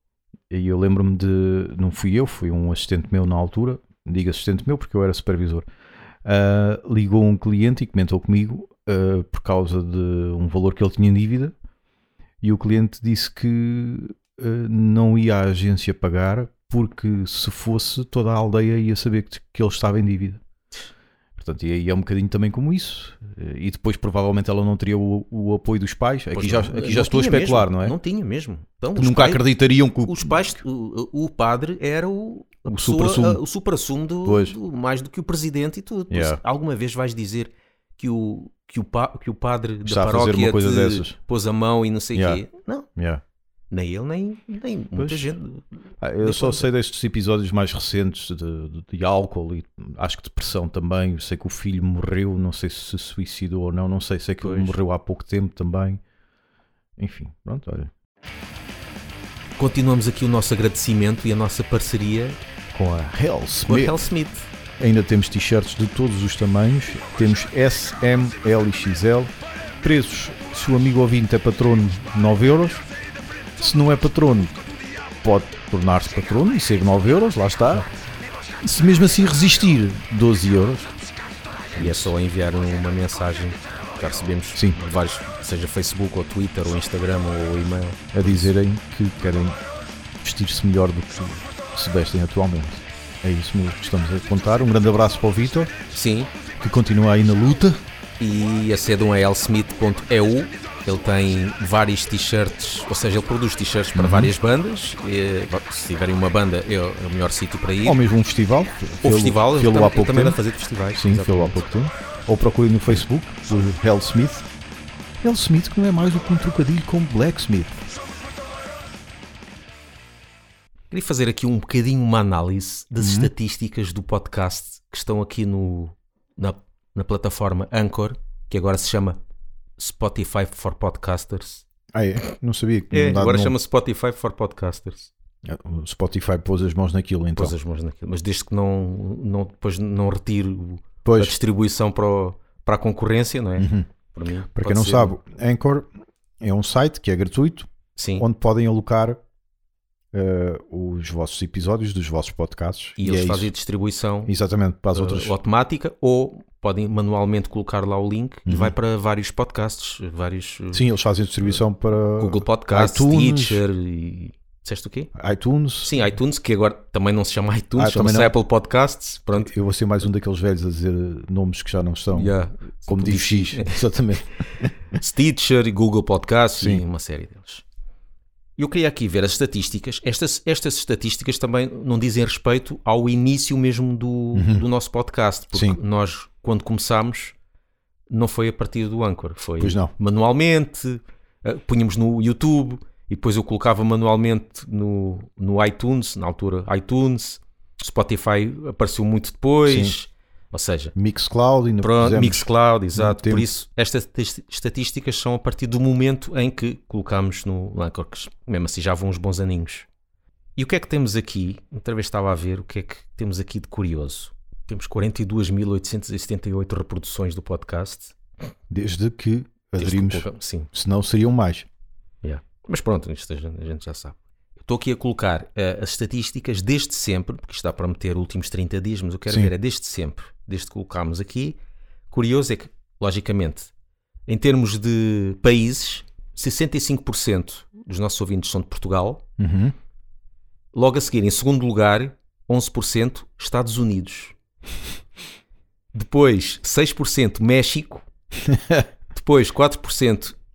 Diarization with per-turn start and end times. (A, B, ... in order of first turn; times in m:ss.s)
0:00.5-0:05.6 A
0:06.2-0:11.5 A
0:12.4-0:20.4 A
0:21.4-0:28.0 A
0:26.3-0:29.5 B
0:28.9-0:30.4 A
0:30.0-0:42.9 B
0:32.7-0:33.4 A
0:34.2-0:34.6 A
0:36.1-0:36.4 A
0:39.8-0:41.2 A
0:42.1-0:42.4 A
0:43.0-0:43.2 A
0:43.7-0:45.6 B
0:45.0-0:45.3 A
0:46.0-0:56.0 A
0:46.2-0:46.7 B
0:54.4-0:54.8 B
0:57.0-0:57.9 A
0:59.6-1:02.4 B
1:02.7-1:04.0 A
1:03.6-1:04.5 B
1:04.8-1:12.8 A
1:13.6-1:14.5 A
1:15.2-1:17.9 A
1:18.6-1:20.9 A
1:21.8-1:22.1 A
1:21.8-1:28.5 B
1:28.1-1:29.6 A
1:30.2-1:35.7 A
1:35.9-1:36.3 B
1:36.6-1:37.8 A
1:38.2-1:48.0 B
1:43.9-1:44.3 A
1:47.8-1:50.4 A
1:49.0-1:51.6 B
1:50.9-1:54.5 A
1:55.2-1:57.8 A
2:00.9-2:09.2 B
2:03.0-2:03.3 A
2:09.8-2:11.6 B
2:11.9-2:13.6 A
2:12.9-2:15.1 B
2:15.4-2:17.5 A
2:17.3-2:25.2 B
2:21.0-2:21.3 A
2:23.6-2:23.9 A
2:24.5-2:25.9 A
2:26.4-2:29.2 A
2:28.0-2:28.2 B
2:30.1-2:33.5 A
2:33.0-2:34.3 B
2:34.2-2:35.3 A
2:34.9-2:40.9 B
2:38.4-2:38.7 A
2:40.7-2:43.6 A
2:42.2-2:45.1 B
2:45.1-2:45.9 A
2:45.8-2:49.5 B
2:47.8-2:48.4 A
2:49.4-2:52.3 A
2:52.1-2:53.8 B
2:52.9-2:54.7 A
2:54.9-2:57.6 B
2:58.6-3:07.3 B
3:04.3-3:04.6 A
3:05.5-3:05.8 A
3:08.1-3:20.9 B
3:09.6-3:09.9 A
3:19.6-3:20.0 A
3:20.9-3:23.5 A
3:21.8-3:29.9 B
3:30.6-3:38.1 B
3:38.7-3:41.7 A
3:39.8-3:40.7 B
3:42.2-3:51.6 B
3:52.1-3:53.7 B
3:54.3-3:59.2 B
3:59.4-3:59.7 A
4:00.7-4:04.3 B
4:05.9-4:08.0 B
4:08.4-4:08.9 A
4:09.1-4:10.4 B